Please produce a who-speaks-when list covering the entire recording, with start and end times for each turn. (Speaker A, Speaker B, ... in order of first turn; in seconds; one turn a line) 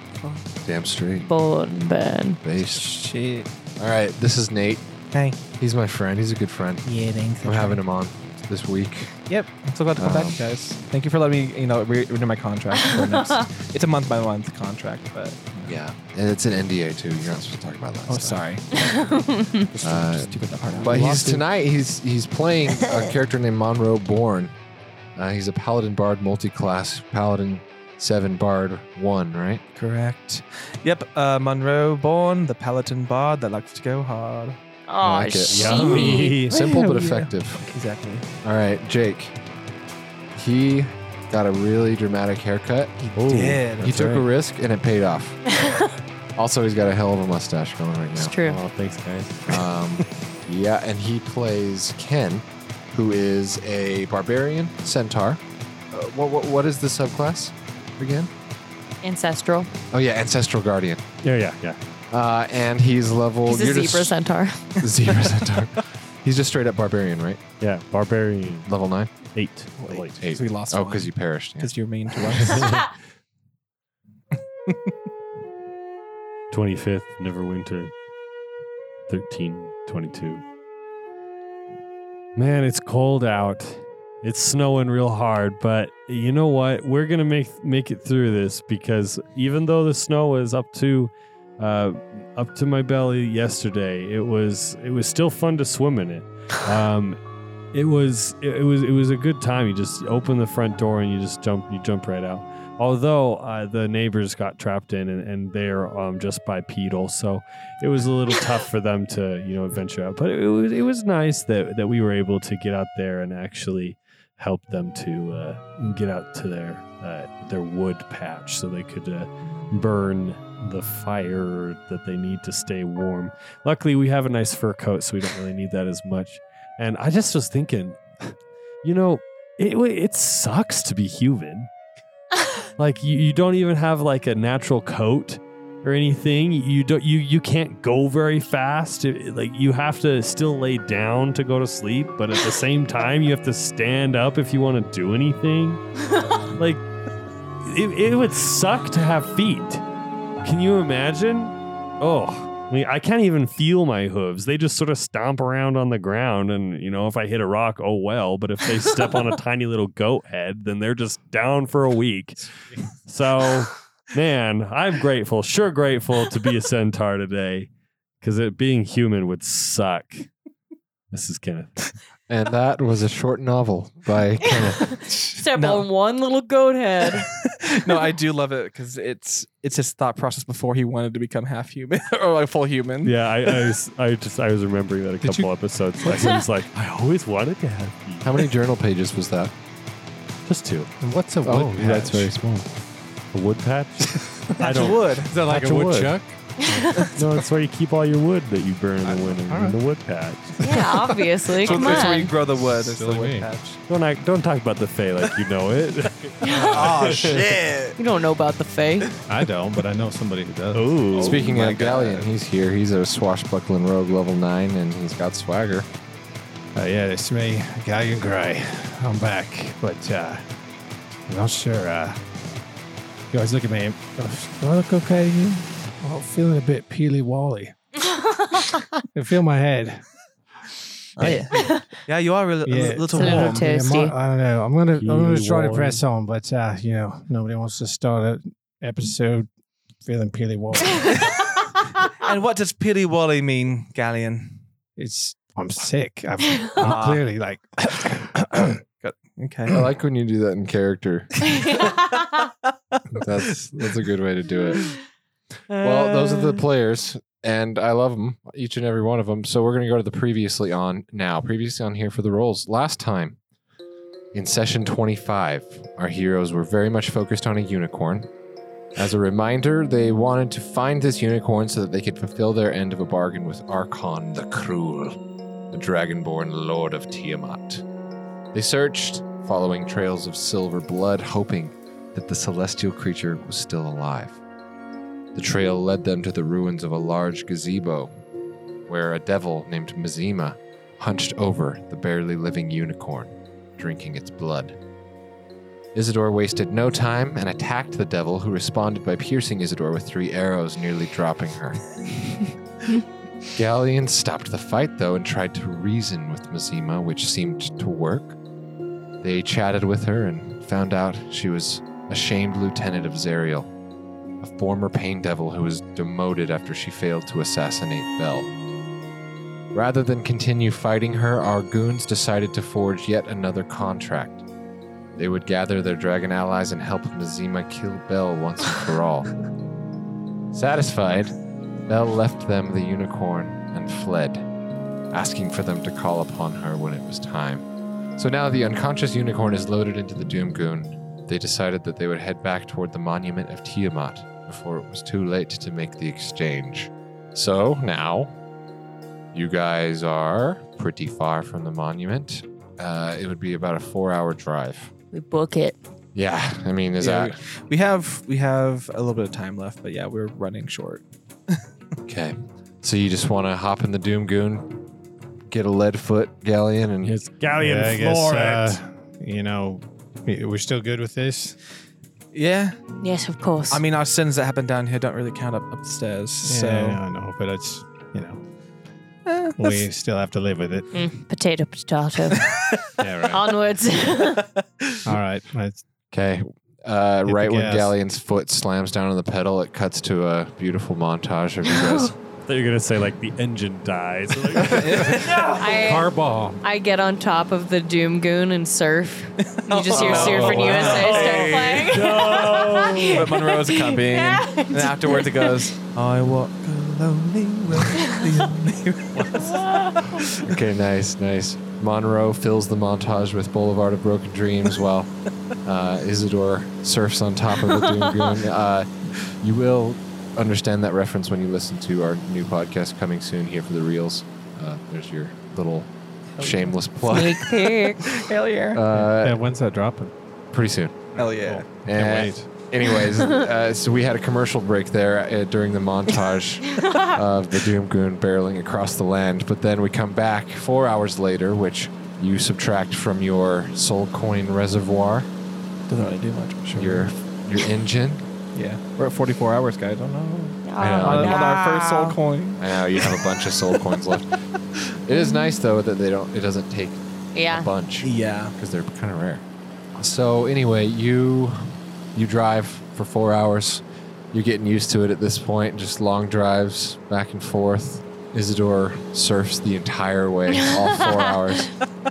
Speaker A: 0.6-1.3
Speaker B: 1.2-2.4
Speaker A: 2.4-2.9
Speaker C: 2.7-3.5
Speaker A: 3.8-4.8
Speaker C: 5.1-5.4
Speaker A: 5.5-6.9
Speaker C: 6.9-7.7
Speaker A: 7.4-9.2
Speaker C: 9.3-15.8
Speaker A: 10.0-10.4
Speaker A: 15.6-18.4
Speaker C: 18.1-18.9
Speaker B: 18.7-19.7
Speaker C: 19.7-21.4
Speaker A: 19.8-24.5
Speaker D: 20.9-21.4
Speaker A: 25.1-29.6
Speaker C: 29.7-34.6
Speaker B: 34.9-36.4
Speaker A: 35.0-37.6
Speaker E: 35.5-36.5
Speaker C: 36.0-38.3
Speaker A: 38.4-39.3
Speaker A: 40.3-43.2
Speaker E: 43.1-44.2
Speaker C: 43.2-44.2
Speaker A: 43.8-45.4
Speaker B: 45.5-45.9
Speaker A: 46.4-48.4
Speaker B: 48.1-48.6
Speaker E: 48.4-49.5
Speaker A: 49.5-58.3
Speaker B: 59.0-59.7
Speaker A: 59.9-61.0
Speaker E: 61.2-61.8
Speaker A: 62.1-64.2
Speaker B: 63.5-64.7
Speaker A: 64.8-67.4
Speaker E: 67.6-68.7
Speaker A: 68.7-69.1
Speaker E: 69.3-70.2
Speaker C: 69.8-72.8
Speaker A: 70.1-71.7
Speaker E: 76.5-77.9
Speaker E: 79.1-80.4
Speaker E: 82.3-97.2
Speaker E: 97.7-131.7
Speaker E: 132.8-145.8
Speaker E: 146.5-146.8
Speaker E: 147.6-149.8
Speaker E: 150.4-162.5
Speaker E: 163.1-167.7
Speaker E: 168.2-170.3
Speaker E: 171.1-171.9
Speaker A: 172.3-174.9
Speaker B: 174.6-177.3
Speaker C: 175.6-175.9
Speaker C: 177.2-183.6
Speaker E: 183.0-188.4
Speaker D: 185.2-185.5
Speaker B: 186.1-186.4
Speaker A: 188.2-189.5
Speaker E: 190.4-190.9
Speaker D: 191.0-192.6
Speaker A: 191.4-192.4
Speaker E: 193.3-196.1
Speaker D: 194.5-197.1
Speaker C: 194.6-195.3
Speaker B: 196.6-197.1
Speaker E: 197.1-200.6
Speaker D: 199.5-199.8
Speaker C: 200.6-203.8
Speaker B: 200.6-202.3
Speaker D: 201.7-203.5
Speaker E: 203.9-207.5
Speaker B: 206.4-206.8
Speaker C: 206.4-208.0
Speaker B: 208.0-209.1
Speaker D: 209.3-211.0
Speaker E: 210.7-211.5
Speaker C: 211.1-212.3
Speaker A: 211.1-215.9
Speaker D: 216.7-220.4
Speaker D: 221.3-222.2
Speaker D: 223.3-227.7
Speaker B: 228.1-228.9
Speaker D: 229.1-230.0
Speaker C: 231.2-233.7
Speaker D: 231.2-231.7
Speaker B: 231.2-231.8
Speaker D: 232.6-239.5
Speaker B: 233.1-234.1
Speaker E: 235.0-236.0
Speaker D: 240.0-241.3
Speaker C: 242.2-244.6
Speaker D: 245.0-248.8
Speaker C: 246.7-247.3
Speaker C: 249.0-249.8
Speaker A: 249.7-251.4
Speaker A: 253.1-254.9
Speaker B: 255.7-256.6
Speaker A: 255.8-263.4
Speaker A: 264.3-268.3
Speaker A: 268.9-275.1
Speaker A: 275.7-277.8
Speaker A: 278.5-284.4
Speaker A: 285.3-288.1
Speaker A: 288.9-294.8
Speaker A: 295.9-301.8
Speaker A: 303.5-308.4
Speaker A: 309.2-313.7
Speaker A: 314.4-318.5
Speaker A: 319.7-324.4
Speaker A: 325.1-329.3
Speaker A: 330.5-331.3
Speaker A: 331.9-334.4
Speaker A: 335.1-337.6
Speaker A: 338.1-348.3
Speaker A: 349.3-354.9
Speaker B: 355.1-355.8
Speaker A: 356.1-357.4
Speaker C: 357.0-361.6
Speaker A: 362.1-364.8
Speaker A: 365.5-367.1
Speaker E: 367.0-368.8
Speaker D: 367.6-371.6
Speaker C: 372.3-372.8
Speaker B: 373.0-373.8
Speaker C: 373.7-377.0
Speaker D: 376.4-378.4
Speaker C: 379.3-379.8
Speaker D: 379.6-380.9
Speaker B: 380.9-382.5
Speaker D: 383.0-383.5
Speaker B: 383.3-384.5
Speaker D: 385.1-385.8
Speaker A: 386.1-392.1
Speaker D: 387.3-387.9
Speaker B: 391.7-392.1
Speaker E: 392.5-395.4
Speaker C: 394.6-395.5
Speaker D: 394.7-396.6
Speaker B: 395.5-405.5
Speaker C: 399.5-410.6
Speaker E: 399.9-403.4
Speaker B: 409.4-410.2
Speaker A: 410.4-415.1
Speaker A: 415.6-427.5
Speaker B: 417.8-418.3
Speaker B: 427.0-428.2
Speaker C: 427.4-428.8
Speaker A: 428.7-429.4
Speaker D: 428.9-430.1
Speaker A: 430.5-431.1
Speaker D: 431.1-432.5
Speaker C: 431.1-431.7
Speaker A: 431.8-445.3
Speaker B: 436.7-437.2
Speaker C: 445.9-447.1
Speaker A: 446.7-448.2
Speaker C: 448.5-454.2
Speaker B: 450.6-452.2
Speaker A: 450.8-451.5
Speaker A: 452.6-454.3
Speaker A: 455.1-459.4
Speaker B: 455.1-455.6
Speaker B: 457.3-457.7
Speaker C: 458.0-458.5
Speaker A: 460.0-471.7
Speaker B: 470.5-471.3